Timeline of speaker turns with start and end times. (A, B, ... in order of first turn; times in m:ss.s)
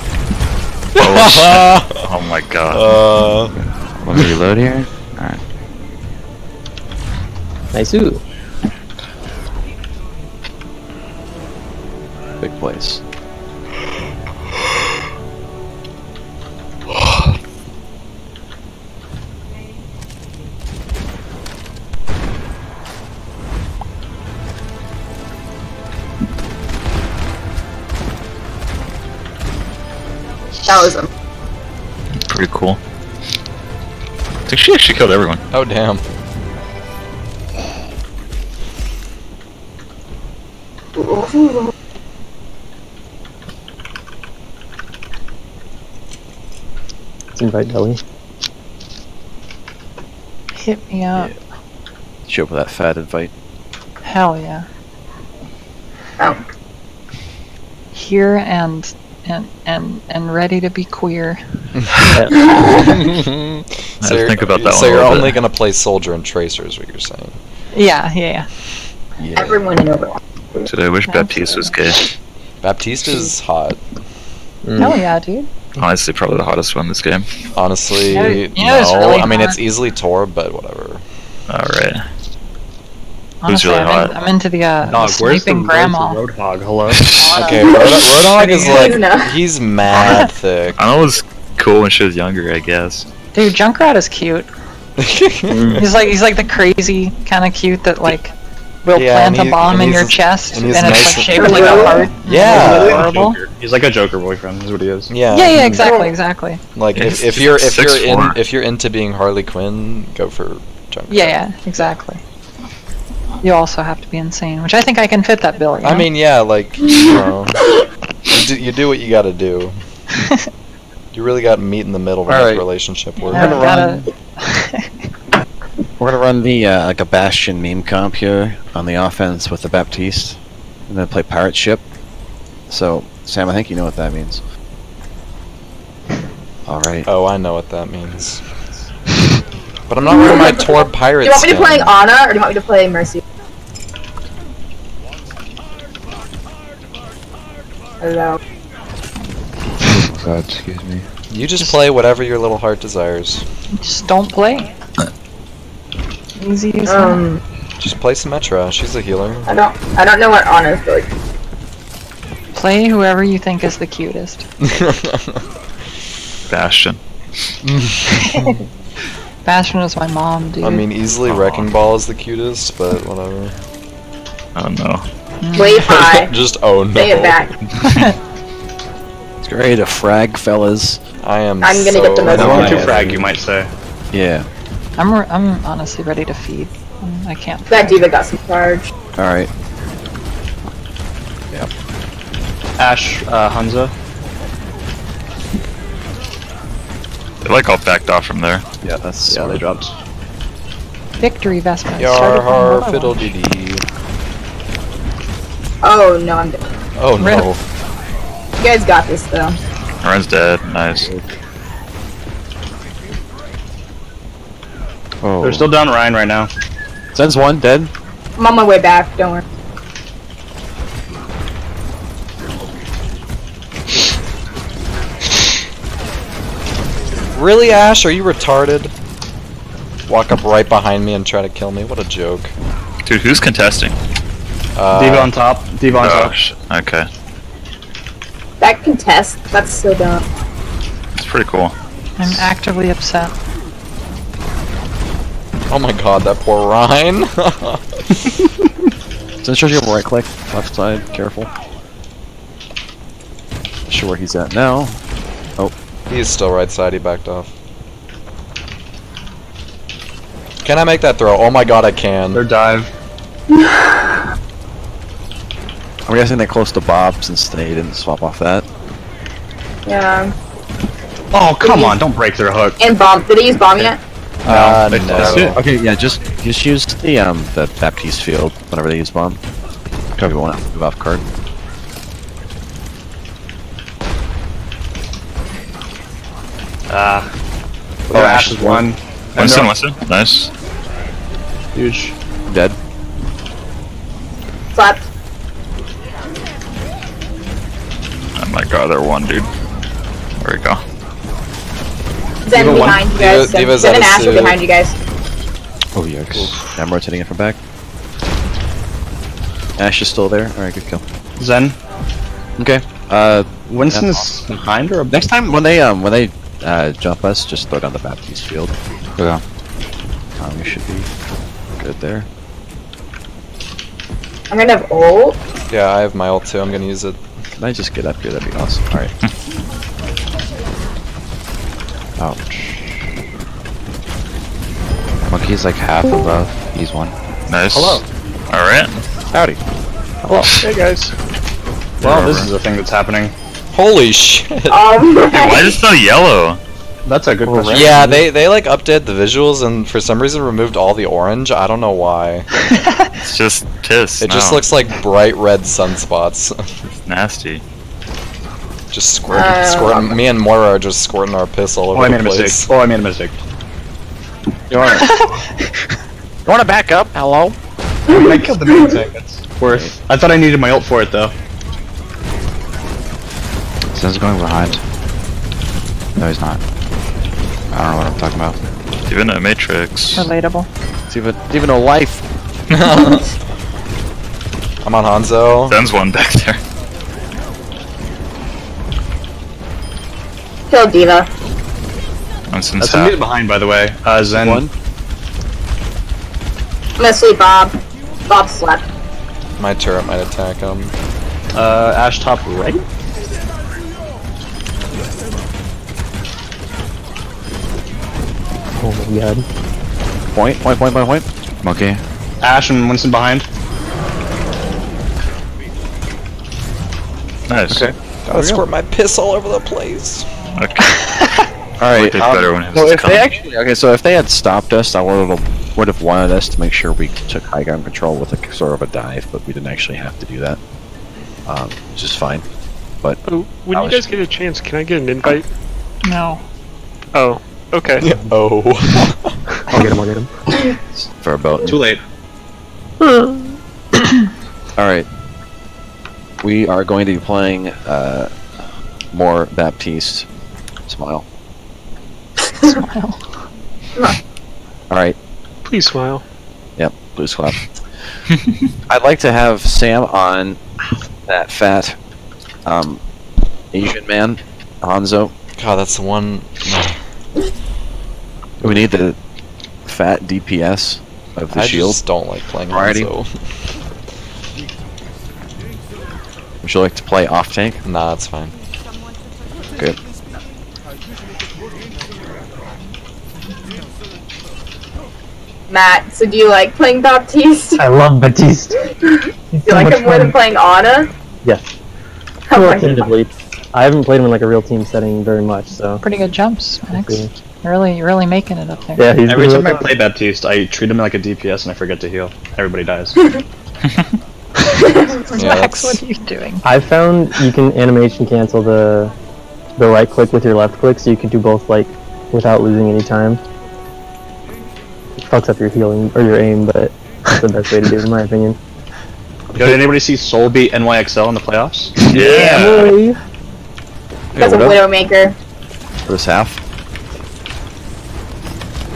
0:01.0-0:03.0 A
0:01.0-0:02.0 B
0:02.7-0:03.5 B
0:03.6-0:05.4 C
0:07.7-0:08.2 D
0:12.4-0:13.0 E
0:30.6-0:31.1 F
0:32.2-0:32.8 A
0:34.5-0:35.4 A
0:35.5-0:36.0 B
0:41.0-0:41.7 F
0:47.3-0:48.0 D
0:50.6-0:51.3 G
0:52.3-0:53.3 E
0:54.0-0:54.6 G
0:57.9-1:01.4 G
1:02.1-1:02.5 D
1:03.0-1:07.4 B
1:04.0-1:05.4 A
1:07.7-1:08.5 G
1:09.2-1:09.6 E
1:09.4-1:10.7 F
1:10.6-1:12.0 A
1:11.1-1:11.8 G
1:12.6-1:13.8 B
1:14.6-1:15.0 D
1:14.8-1:15.5 G
1:15.8-1:17.2 A
1:17.6-1:21.0 B
1:18.1-1:19.6 G
1:21.5-1:22.0 A
1:23.4-1:26.2 G
1:23.4-1:24.2 A
1:24.8-1:27.1 H
1:26.9-1:27.3 A
1:27.1-1:29.0 G
1:27.4-1:30.8 B
1:27.6-1:29.3 F
1:30.0-1:30.3 G
1:30.8-1:33.1 A
1:33.3-1:34.5 G
1:35.0-1:35.8 B
1:35.5-1:35.9 D
1:35.7-1:38.3 G
1:38.8-1:43.4 G
1:38.9-1:43.0 B
1:41.4-1:42.0 D
1:41.4-1:42.1 F
1:42.4-1:45.1 H
1:45.1-1:45.8 B
1:45.3-1:46.6 G
1:45.8-1:46.1 F
1:46.7-1:51.4 B
1:47.0-1:48.4 A
1:51.1-1:52.2 G
1:53.4-1:56.1 G
1:55.8-1:57.7 B
1:58.3-1:59.8 B
2:01.1-2:03.6 B
2:02.3-2:02.6 E
2:03.2-2:04.9 G
2:03.3-2:04.1 E
2:06.0-2:10.4 E
2:10.9-2:11.8 E
2:12.7-2:14.4 E
2:16.6-2:17.1 E
2:17.0-2:18.5 B
2:19.9-2:22.0 B
2:20.1-2:20.6 F
2:21.2-2:23.2 F
2:28.0-2:28.4 F
2:29.8-2:31.0 C
2:31.3-2:33.4 B
2:33.8-2:34.7 G
2:36.4-2:37.2 G
2:36.8-2:37.4 F
2:37.8-2:39.5 B
2:39.5-2:41.1 F
2:42.5-2:44.4 G
2:44.6-2:45.4 B
2:46.5-2:47.0 A
2:47.6-2:47.9 B
2:48.1-2:48.6 G
2:49.4-2:50.8 G
2:50.6-2:53.5 B
2:51.2-2:51.6 A
2:54.5-2:55.0 A
2:55.4-2:55.9 G
2:55.5-2:56.3 F
2:55.8-2:57.4 B
2:56.9-2:57.5 F
2:57.8-2:58.2 G
2:59.4-3:01.0 E
3:01.2-3:03.3 B
3:01.6-3:02.9 F
3:02.3-3:03.7 H
3:02.3-3:03.0 E
3:04.1-3:04.4 E
3:05.0-3:08.0 G
3:07.7-3:08.9 F
3:09.2-3:09.5 E
3:12.8-3:13.9 H
3:17.4-3:18.6 A
3:18.8-3:19.7 E
3:19.3-3:19.9 H
3:21.2-3:23.3 G
3:22.0-3:23.8 B
3:25.8-3:26.7 F
3:27.0-3:27.6 B
3:27.2-3:27.5 G
3:28.6-3:29.6 F
3:30.0-3:31.1 A
3:35.2-3:35.7 E
3:35.4-3:36.5 H
3:37.1-3:37.9 E
3:38.4-3:39.4 F
3:47.3-3:48.9 B
3:50.1-3:52.5 B
3:53.0-3:53.9 A
3:54.8-3:55.3 B
3:54.9-3:56.3 H
3:55.9-3:57.1 A
3:58.6-4:00.2 F
4:01.2-4:01.7 A
4:02.2-4:03.3 G
4:05.7-4:07.8 B
4:09.4-4:11.5 E
4:13.9-4:15.0 E
4:16.1-4:17.5 B
4:20.6-4:22.4 B
4:22.3-4:22.9 H
4:26.0-4:28.6 E
4:29.8-4:30.3 F
4:31.3-4:32.8 H
4:31.6-4:32.0 F
4:32.8-4:34.0 F
4:34.4-4:35.5 B
4:34.5-4:35.6 H
4:34.9-4:39.4 E
4:40.2-4:41.2 E
4:46.9-4:47.3 H
4:48.1-4:49.7 H
4:48.1-4:48.9 E
4:49.4-4:50.5 A
4:51.7-4:52.1 H
4:52.5-4:52.8 E
4:54.7-4:55.0 F
4:58.4-4:59.5 A
5:00.4-5:00.8 A
5:02.4-5:04.9 F
5:02.5-5:03.0 H
5:03.1-5:04.6 B
5:06.0-5:06.5 C
5:06.1-5:07.6 E
5:09.8-5:11.0 E
5:11.4-5:11.8 H
5:12.6-5:14.3 E
5:13.7-5:15.3 H
5:15.1-5:18.7 E
5:20.4-5:21.1 E
5:21.8-5:22.2 E
5:24.5-5:25.4 F
5:25.7-5:27.2 B
5:27.6-5:29.1 E
5:32.2-5:32.5 C
5:35.2-5:37.1 C
5:37.5-5:39.0 A
5:37.7-5:38.0 D
5:39.3-5:39.6 E
5:40.2-5:40.5 D
5:40.6-5:41.1 H
5:42.0-5:42.5 A
5:42.0-5:43.3 H
5:43.7-5:44.8 B
5:44.7-5:45.8 F
5:45.3-5:46.6 A
5:47.0-5:48.2 H
5:47.4-5:47.9 D
5:47.7-5:52.5 B
5:52.8-5:53.1 G
5:53.2-5:54.6 A
5:54.2-5:56.7 B
5:57.0-5:57.6 A
5:58.9-6:02.7 B
5:59.3-6:00.2 F
6:01.9-6:03.4 H
6:04.7-6:05.1 E
6:04.8-6:05.3 G
6:06.4-6:07.6 E
6:08.1-6:09.0 F
6:08.1-6:11.3 H
6:13.9-6:14.8 C
6:16.2-6:16.6 C
6:17.7-6:18.6 C
6:19.1-6:20.3 A
6:20.2-6:20.7 G
6:21.1-6:22.2 E
6:22.8-6:23.2 B
6:24.8-6:25.8 B
6:25.7-6:26.6 A
6:30.7-6:31.3 F
6:32.5-6:33.2 A
6:32.8-6:34.7 H
6:34.3-6:34.7 E
6:37.0-6:37.8 F
6:38.3-6:38.9 F
6:39.6-6:40.9 B
6:41.5-6:42.8 H
6:48.8-6:49.4 D
6:50.3-6:51.2 E
6:51.6-6:52.0 C
6:52.4-6:53.4 H
6:57.5-6:57.8 A
6:57.7-6:58.6 E
6:58.3-7:00.2 B
7:00.6-7:00.9 A
7:00.8-7:01.5 G
7:01.8-7:10.6 E
7:01.9-7:03.3 A
7:11.4-7:12.4 E
7:13.2-7:15.4 I
7:13.7-7:14.1 E
7:16.0-7:16.4 G
7:17.1-7:18.0 I
7:18.0-7:19.4 B
7:19.7-7:20.3 D
7:21.0-7:21.8 E
7:21.6-7:22.0 H
7:23.0-7:23.4 D
7:24.8-7:25.1 E
7:26.4-7:28.3 E
7:29.1-7:30.2 E
7:30.9-7:31.2 E
7:32.6-7:33.5 G
7:34.9-7:35.2 E
7:35.6-7:36.2 I
7:36.8-7:38.1 E
7:38.9-7:40.6 E
7:41.3-7:42.0 E
7:42.6-7:43.0 E
7:43.7-7:45.3 E
7:45.6-7:47.0 B
7:48.6-7:49.2 E
7:49.8-7:52.0 E
7:51.5-7:53.6 B
7:52.7-7:53.1 E
7:56.6-7:57.8 E
7:57.8-7:58.5 B
8:05.7-8:07.8 F
8:07.8-8:08.8 D
8:09.0-8:11.1 F
8:09.5-8:10.4 D
8:12.5-8:13.1 F
8:12.5-8:16.0 D
8:16.0-8:19.2 G
8:16.9-8:17.3 D
8:19.0-8:19.9 D
8:19.2-8:23.2 H
8:24.7-8:26.6 G
8:24.8-8:25.2 F
8:25.3-8:26.0 B
8:26.6-8:29.1 D
8:29.8-8:33.4 D
8:35.2-8:38.6 D
8:39.5-8:42.0 H
8:42.0-8:43.2 D
8:42.1-8:42.9 A
8:42.3-8:42.7 E
8:44.3-8:44.8 E
8:44.4-8:45.4 F
8:46.0-8:46.6 E